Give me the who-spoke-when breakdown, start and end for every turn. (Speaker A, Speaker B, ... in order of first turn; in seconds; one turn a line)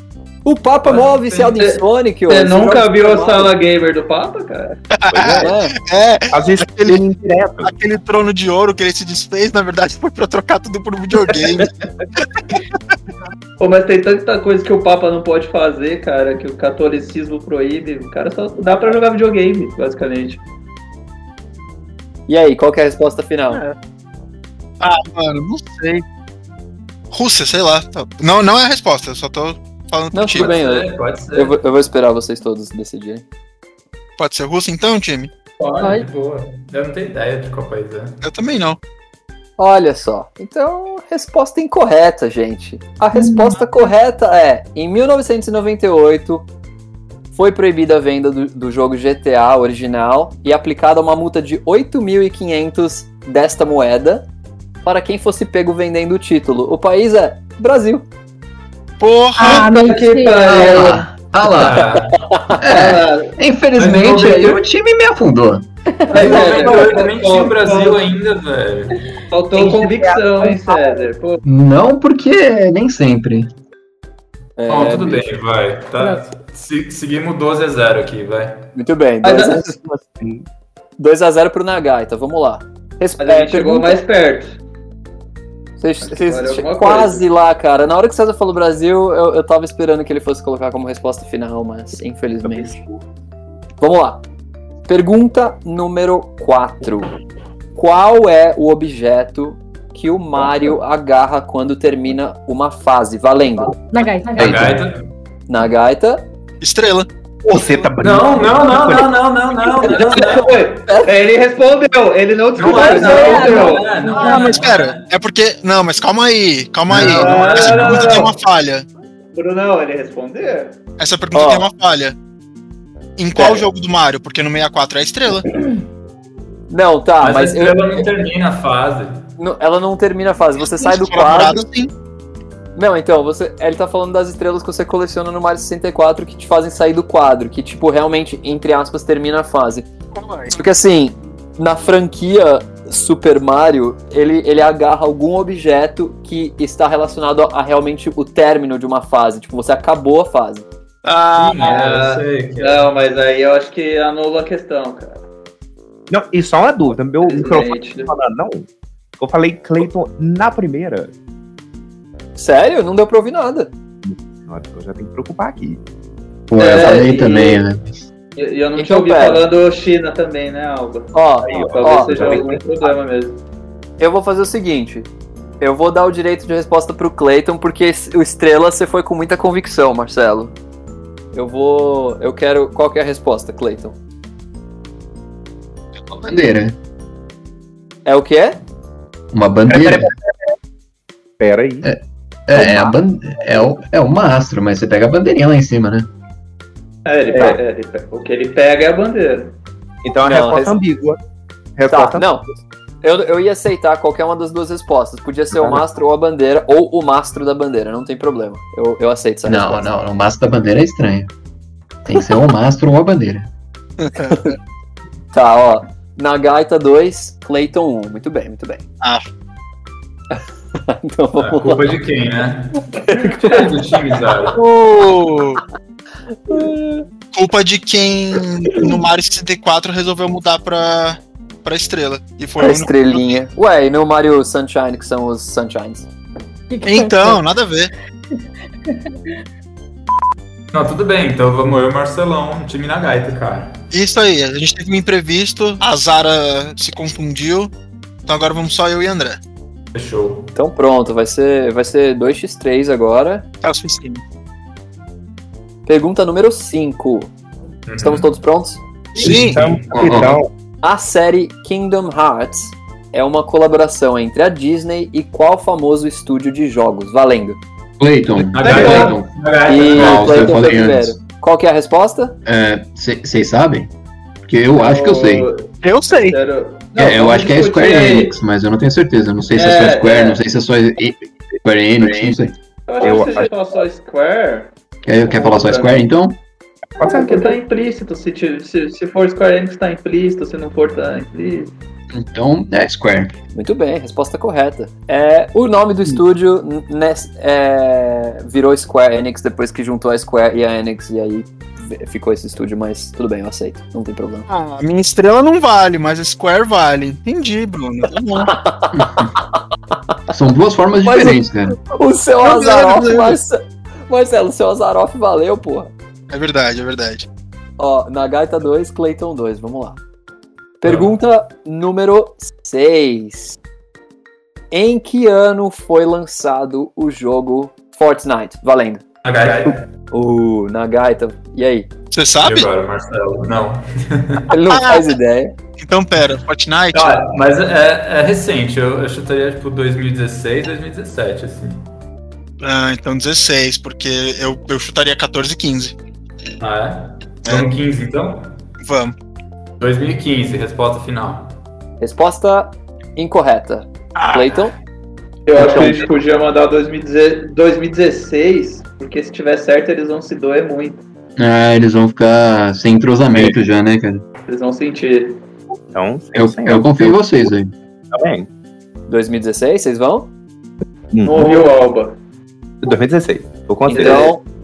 Speaker A: 0.5-3.5
Speaker B: 1.0-4.8
Speaker C: 4.9-7.0
Speaker D: 5.1-5.5
Speaker A: 5.4-5.8
Speaker D: 6.3-7.7
Speaker C: 7.6-11.7
Speaker B: 13.6-20.4
Speaker A: 22.3-23.6
Speaker C: 24.8-26.0
Speaker C: 27.1-30.6
Speaker A: 30.1-33.2
Speaker E: 30.4-31.6
Speaker C: 34.2-35.3
Speaker E: 35.6-38.2
Speaker C: 38.2-38.8
Speaker A: 39.6-46.5
Speaker F: 43.1-43.6
Speaker A: 47.3-54.3
Speaker A: 54.8-58.0
Speaker C: 59.0-59.7
Speaker F: 59.4-60.8
Speaker B: 59.4-61.1
Speaker G: 60.5-62.0
Speaker E: 61.4-62.2
Speaker A: 62.2-62.6
Speaker G: 62.6-65.7
Speaker B: 62.7-63.3
Speaker E: 63.8-64.6
Speaker F: 66.1-66.3
Speaker B: 66.1-68.0
Speaker E: 66.1-69.0
Speaker A: 66.2-66.6
Speaker B: 69.3-71.4
Speaker D: 69.5-70.8
Speaker G: 71.4-73.5
Speaker A: 74.6-75.3
Speaker E: 74.7-78.7
Speaker A: 78.8-79.8
Speaker B: 79.2-79.6
Speaker D: 79.5-80.5
Speaker A: 81.0-84.0
Speaker B: 83.2-84.6
Speaker A: 85.8-92.8
Speaker B: 86.0-87.2
Speaker D: 92.4-93.0
Speaker A: 93.8-94.2
Speaker A: 94.9-97.1
Speaker A: 97.8-103.8
Speaker F: 103.9-104.7
Speaker E: 104.3-105.0
Speaker G: 104.4-104.8
Speaker A: 105.5-106.2
Speaker C: 106.6-107.1
Speaker D: 107.4-109.2
Speaker E: 108.0-110.5
Speaker A: 109.8-111.1
Speaker B: 110.0-114.1
Speaker E: 112.6-115.0
Speaker F: 112.7-114.6
Speaker C: 114.1-118.9
Speaker E: 116.9-118.2
Speaker B: 117.0-118.4
Speaker B: 119.3-120.8
Speaker C: 121.0-122.2
Speaker A: 121.3-121.7
Speaker C: 123.2-125.5
Speaker A: 123.3-123.6
Speaker A: 126.7-128.1
Speaker E: 127.2-129.3
Speaker A: 129.4-131.6
Speaker C: 130.6-131.9
Speaker A: 132.8-139.9
Speaker C: 140.1-140.6
Speaker A: 140.5-150.7
Speaker C: 151.0-151.7
Speaker E: 151.3-152.9
Speaker B: 151.6-155.2
Speaker D: 156.1-158.7
Speaker B: 157.2-158.1
Speaker D: 159.2-161.1
Speaker A: 162.4-163.7
Speaker D: 164.0-165.8
Speaker G: 166.5-168.0
Speaker B: 166.6-167.6
Speaker B: 168.4-173.4
Speaker A: 168.8-169.4
Speaker A: 171.1-172.3
Speaker D: 171.4-172.6
Speaker A: 174.0-175.1
Speaker A: 175.6-180.5
Speaker A: 181.3-184.0
Speaker G: 186.1-186.8
Speaker A: 188.1-188.6
Speaker G: 189.3-190.1
Speaker D: 189.7-190.1
Speaker D: 191.4-191.9
Speaker G: 191.8-196.1
Speaker A: 192.6-192.9
Speaker B: 197.1-199.6
Speaker D: 197.3-197.6
Speaker D: 200.0-201.2
Speaker A: 200.2-200.8
Speaker D: 201.8-202.3
Speaker A: 201.9-202.5
Speaker A: 203.0-209.9
Speaker D: 205.5-205.8
Speaker G: 209.5-211.3
Speaker G: 212.1-213.5
Speaker C: 214.0-214.5
Speaker A: 215.3-218.8
Speaker A: 220.3-221.9
Speaker E: 221.4-224.6
Speaker A: 222.9-223.7
Speaker C: 224.6-225.6
Speaker A: 226.3-227.1
Speaker C: 227.3-233.4
Speaker A: 232.6-236.1
Speaker F: 236.7-237.4
Speaker C: 236.8-237.9
Speaker E: 240.7-243.8
Speaker C: 243.9-247.7
Speaker C: 248.3-249.4
Speaker E: 249.9-250.5
Speaker A: 250.6-253.5
Speaker C: 253.6-254.2
Speaker A: 255.9-257.3
Speaker E: 257.9-258.3
Speaker A: 258.0-258.8
Speaker C: 259.2-259.6
Speaker D: 259.2-260.5
Speaker E: 259.2-259.9
Speaker G: 259.9-260.4
Speaker A: 260.8-267.6
Speaker G: 268.0-271.2
Speaker E: 268.5-270.6
Speaker B: 268.6-269.1
Speaker A: 269.7-272.4
Speaker G: 272.4-273.9
Speaker G: 274.5-275.5
Speaker B: 274.8-278.4
Speaker C: 275.8-276.4
Speaker G: 277.0-282.6
Speaker B: 279.6-280.4
Speaker B: 282.9-286.1
Speaker D: 283.0-283.5
Speaker G: 285.1-286.4
Speaker D: 287.0-287.6
Speaker B: 287.0-291.7
Speaker G: 292.1-293.3
Speaker A: 293.5-304.4
Speaker C: 304.5-308.6
Speaker A: 308.4-309.3
Speaker G: 308.9-309.3
Speaker G: 310.3-311.8
Speaker A: 311.1-315.9
Speaker C: 312.4-313.4
Speaker C: 316.3-317.3
Speaker A: 317.8-320.0
Speaker A: 320.8-323.6
Speaker E: 320.9-321.1
Speaker A: 324.7-329.1
Speaker E: 329.2-329.8
Speaker A: 330.1-331.9
Speaker C: 332.1-332.7
Speaker E: 332.4-334.5
Speaker A: 334.5-335.5
Speaker C: 334.7-335.1
Speaker C: 335.8-337.2
Speaker E: 336.9-341.9
Speaker C: 342.6-345.9
Speaker E: 346.6-348.5
Speaker C: 348.8-349.1
Speaker E: 349.8-351.6
Speaker A: 352.0-354.7
Speaker C: 354.2-354.5
Speaker B: 355.5-361.0
Speaker A: 355.6-356.1
Speaker G: 361.4-364.2
Speaker B: 364.5-365.4
Speaker D: 365.9-367.2
Speaker G: 366.4-367.7
Speaker D: 368.1-368.5
Speaker A: 369.1-370.3
Speaker D: 371.1-371.7
Speaker B: 371.2-372.2
Speaker D: 372.8-374.4
Speaker A: 373.9-374.4
Speaker B: 373.9-374.3